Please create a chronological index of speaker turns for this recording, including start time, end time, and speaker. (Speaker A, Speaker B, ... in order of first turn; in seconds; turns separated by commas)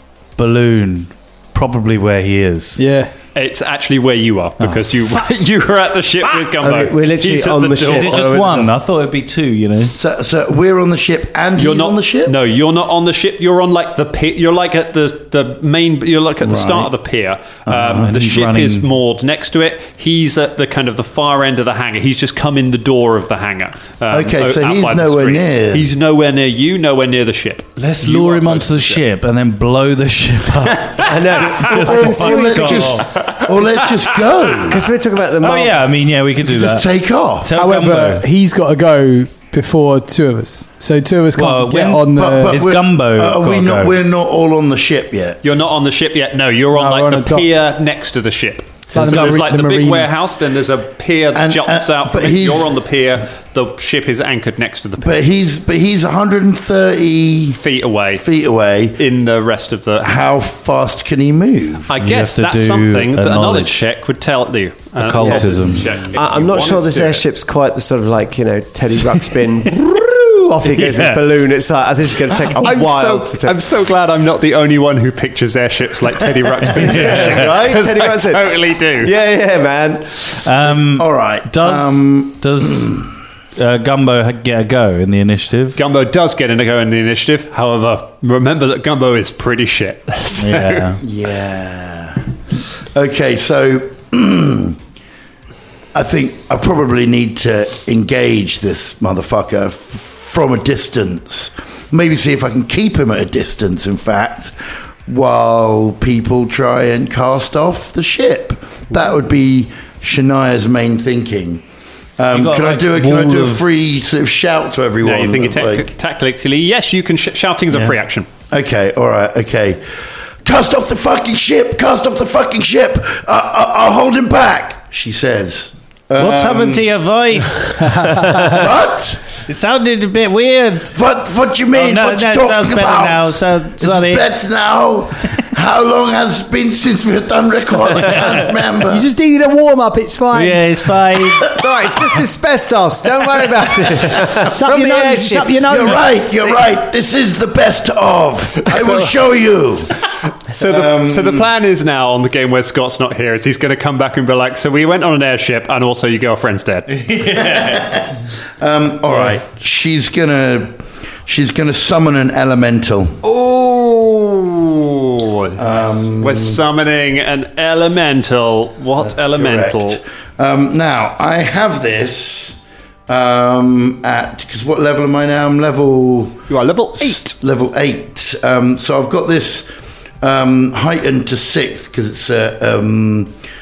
Speaker A: 0.4-2.8, Speaker B: 2.8-3.1, Speaker C: 3.4-8.3, Speaker A: 4.6-5.2, Speaker D: 6.6-8.7, Speaker A: 7.8-9.9, Speaker E: 9.9-12.4, Speaker C: 11.6-29.0, Speaker E: 16.4-16.9, Speaker E: 17.7-18.1, Speaker A: 18.0-18.9, Speaker E: 24.1-25.9, Speaker A: 27.8-33.1, Speaker C: 30.7-31.9, Speaker D: 31.0-33.0, Speaker E: 31.8-34.9, Speaker C: 33.1-34.8, Speaker D: 34.7-35.8, Speaker A: 35.4-36.9, Speaker E: 36.4-37.5, Speaker A: 37.4-38.3, Speaker B: 37.6-42.6, Speaker A: 41.4-44.0, Speaker E: 42.1-45.4, Speaker C: 45.4-55.2, Speaker B: 46.7-47.5, Speaker B: 48.9-50.1, Speaker A: 49.0-49.4, Speaker E: 51.3-52.7, Speaker E: 55.0-57.6, Speaker C: 57.5-58.3, Speaker E: 58.1-59.0, Speaker C: 59.0-60.2, Speaker E: 60.0-61.9, Speaker C: 61.9-67.2, Speaker A: 62.0-63.8, Speaker A: 65.0-66.0, Speaker D: 65.2-73.6, Speaker A: 70.7-71.2, Speaker C: 72.5-79.1, Speaker D: 76.7-80.3, Speaker A: 76.8-77.5, Speaker A: 80.3-85.8, Speaker E: 81.0-83.1, Speaker C: 85.8-90.9, Speaker A: 90.4-91.0, Speaker E: 91.0-92.2, Speaker E: 92.9-94.8, Speaker E: 95.9-111.6, Speaker E: 112.2-115.9, Speaker A: 112.3-113.7, Speaker C: 115.0-118.3, Speaker E: 117.7-118.0, Speaker E: 118.5-119.8, Speaker E: 120.4-126.9, Speaker A: 126.2-128.2, Speaker B: 127.8-128.3, Speaker D: 128.3-128.6, Speaker E: 128.4-129.3, Speaker A: 129.4-131.0, Speaker E: 130.9-139.1, Speaker A: 131.7-134.2, Speaker B: 138.9-140.8, Speaker A: 140.3-141.6, Speaker D: 141.5-145.6, Speaker B: 144.5-146.1, Speaker E: 145.7-150.0, Speaker C: 148.7-149.1, Speaker C: 150.5-157.0, Speaker E: 150.6-151.5, Speaker A: 157.0-157.8, Speaker E: 157.3-163.2, Speaker C: 163.2-165.6, Speaker E: 165.6-166.6, Speaker C: 166.2-170.0, Speaker E: 169.0-176.5, Speaker C: 176.5-177.3, Speaker E: 177.0-179.7, Speaker E: 180.2-183.3